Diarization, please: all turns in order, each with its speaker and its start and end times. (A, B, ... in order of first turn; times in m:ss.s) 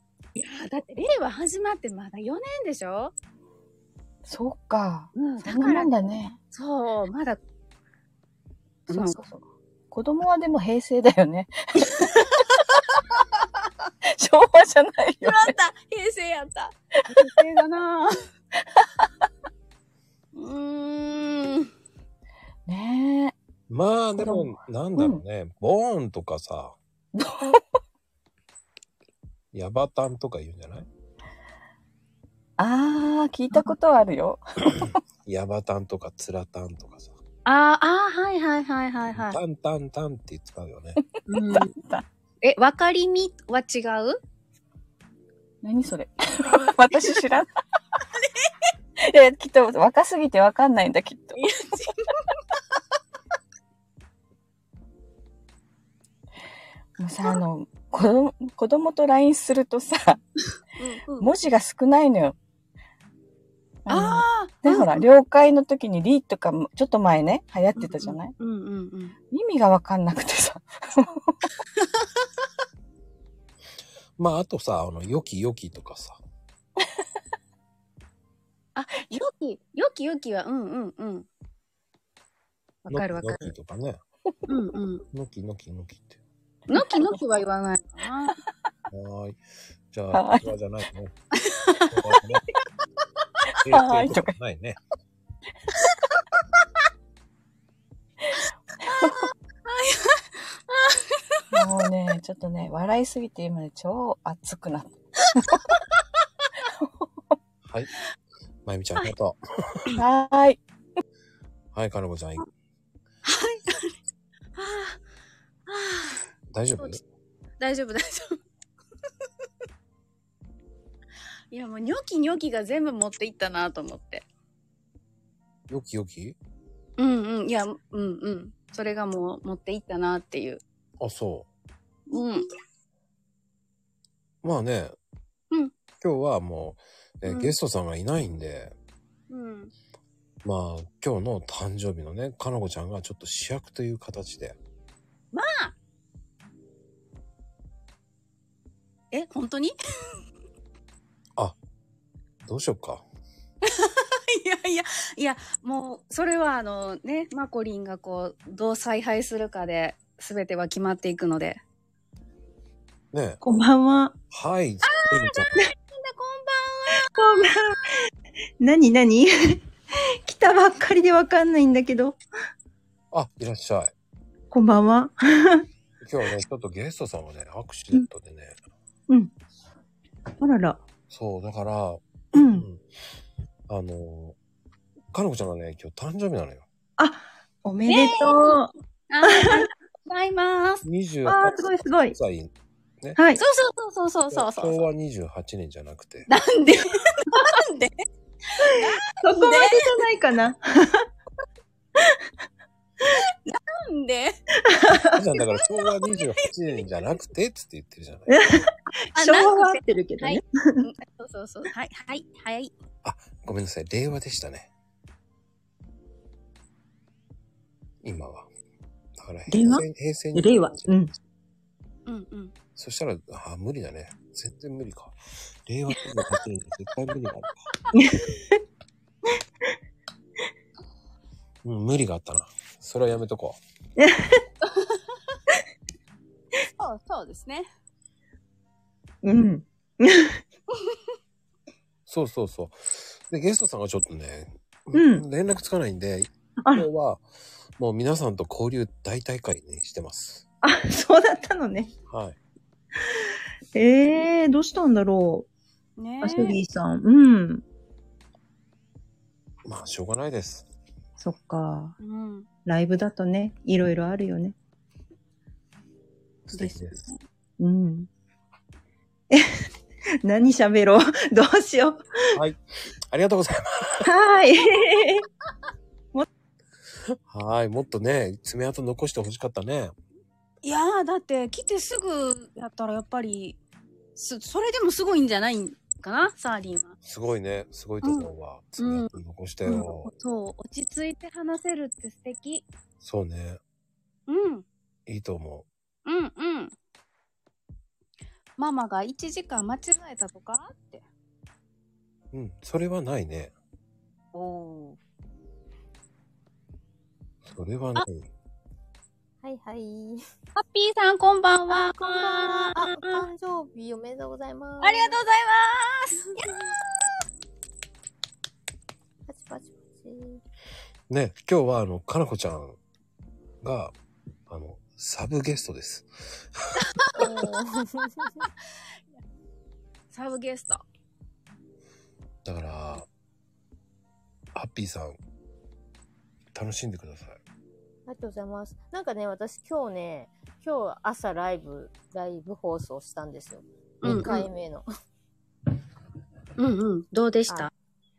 0:00.4-0:03.1 A
0:04.2-0:06.4 B
0:05.2-0:05.9 A
0:06.5-0:07.4 A
0:08.9-0:09.2 A
0:08.9-0:12.4 B
0:14.0-0:15.5 B
0:15.2-0:18.1 A
0:20.3-0:21.7 A
0:22.7-0:23.3 B
0:23.7-0:26.8 C
0:24.2-0:24.4 B
0:27.2-0:27.6 B
0:29.5-0:30.9 C
0:32.6-0:34.4 B
0:35.2-0:37.1 C
0:37.4-0:39.4 A
0:39.1-0:41.0 C
0:41.3-0:41.7 A
0:41.4-0:42.0 B
0:42.4-0:44.2 A
0:45.6-0:47.5 B
0:49.0-0:51.4 B
0:51.4-0:52.1 A
0:57.0-1:00.2 B
1:00.8-1:01.3 A
1:01.2-1:02.4 B
1:03.8-1:08.3 B
1:03.9-1:05.0 A
1:07.8-1:09.1 A
1:09.3-1:11.3 B
1:14.2-1:16.2 C
1:18.8-1:21.3 A
1:22.8-1:23.5 A
1:22.9-1:24.0 C
1:24.5-1:25.0 A
1:25.1-1:26.2 C
1:26.7-1:28.4 A
1:26.7-1:27.2 B
1:28.9-1:29.4 C
1:29.9-1:31.1 C
1:30.1-1:30.5 B
1:31.3-1:31.9 A
1:31.9-1:32.4 C
1:33.6-1:34.8 C
1:33.7-1:34.3 B
1:38.3-1:39.2 B
1:39.6-1:41.4 A
1:41.5-1:45.5 B
1:47.6-1:47.9 C
1:48.6-1:49.8 C
1:50.0-1:50.6 B
1:51.7-1:52.5 C
1:53.2-1:54.0 A
1:54.6-1:55.0 A
1:55.7-1:56.2 A
1:56.5-1:57.0 C
1:57.6-1:58.4 A
2:01.5-2:04.2 A
2:05.7-2:06.4 C
2:07.0-2:10.6 A
2:11.0-2:11.5 C
2:12.1-2:12.5 A
2:14.4-2:15.0 C
2:16.0-2:18.7 C
2:17.3-2:17.5 A
2:19.3-2:19.7 A
2:20.4-2:24.6 C
2:25.3-2:25.7 A
2:29.1-2:29.8 A
2:32.4-2:33.0 C
2:33.6-2:41.6 A
2:43.1-2:43.4 C
2:43.4-2:44.1 D
2:44.3-2:45.5 C
2:44.8-2:47.5 A
2:46.9-2:47.9 D
2:48.6-2:49.6 D
2:50.2-2:52.2 D
2:53.1-2:53.9 C
2:54.5-2:55.6 D
2:56.0-2:58.6 C
3:00.4-3:00.8 D
3:01.1-3:02.8 C
3:02.3-3:02.7 D
3:03.7-3:04.4 C
3:05.1-3:06.6 C
3:07.0-3:08.7 D
3:07.9-3:08.5 A
3:09.1-3:10.8 A
3:09.2-3:09.6 D
3:10.8-3:13.2 C
3:11.2-3:12.2 D
3:13.2-3:13.4 D
3:13.4-3:14.8 A
3:14.3-3:16.3 C
3:16.3-3:18.0 A
3:18.6-3:21.0 D
3:18.7-3:19.9 A
3:23.5-3:24.4 A
3:24.6-3:25.2 D
3:25.1-3:28.3 C
3:28.3-3:30.9 D
3:29.2-3:32.7 A
3:33.0-3:34.7 C
3:38.0-3:38.5 C
3:39.2-3:41.1 C
3:39.5-3:41.1 D
3:42.1-3:42.5 A
3:42.8-3:47.5 C
3:47.9-3:48.2 D
3:51.6-3:53.6 C
3:54.0-3:54.4 D
3:56.8-3:57.7 A
3:59.2-4:00.4 D
4:02.1-4:07.2 C
4:04.9-4:05.2 D
4:06.6-4:06.9 D
4:07.8-4:10.4 C
4:10.6-4:11.9 D
4:12.1-4:12.4 C
4:13.7-4:15.5 D
4:16.0-4:16.6 A
4:16.2-4:17.6 D
4:19.6-4:20.6 C
4:21.2-4:22.0 D
4:22.0-4:22.4 A
4:22.6-4:24.5 D
4:26.5-4:27.0 C
4:26.6-4:27.1 A
4:27.6-4:28.1 D
4:30.2-4:32.0 D
4:32.3-4:34.1 C
4:34.0-4:35.2 D
4:37.3-4:39.9 C
4:40.6-4:43.6 A
4:44.2-4:46.9 A
4:47.0-4:50.1 C
4:48.0-4:49.1 A
4:49.6-4:52.6 A
4:53.0-4:53.6 C
4:54.3-4:54.6 A
4:55.0-4:55.7 C
4:56.0-4:56.7 A
4:58.6-5:01.0 A
5:02.3-5:03.5 C
5:04.3-5:05.0 A
5:07.4-5:08.3 C
5:09.4-5:10.2 E
5:10.6-5:13.2 A
5:11.7-5:15.2 E
5:14.8-5:16.6 A
5:19.3-5:20.4 E
5:21.1-5:22.8 C
5:23.6-5:23.9 C
5:24.5-5:26.6 C
5:27.0-5:27.4 A
5:27.2-5:28.4 E
5:30.1-5:30.8 A
5:32.4-5:33.1 C
5:34.5-5:35.2 C
5:36.5-5:37.4 C
5:38.1-5:44.9 E
5:44.0-5:44.5 A
5:44.0-5:44.3 C
5:46.6-5:47.7 A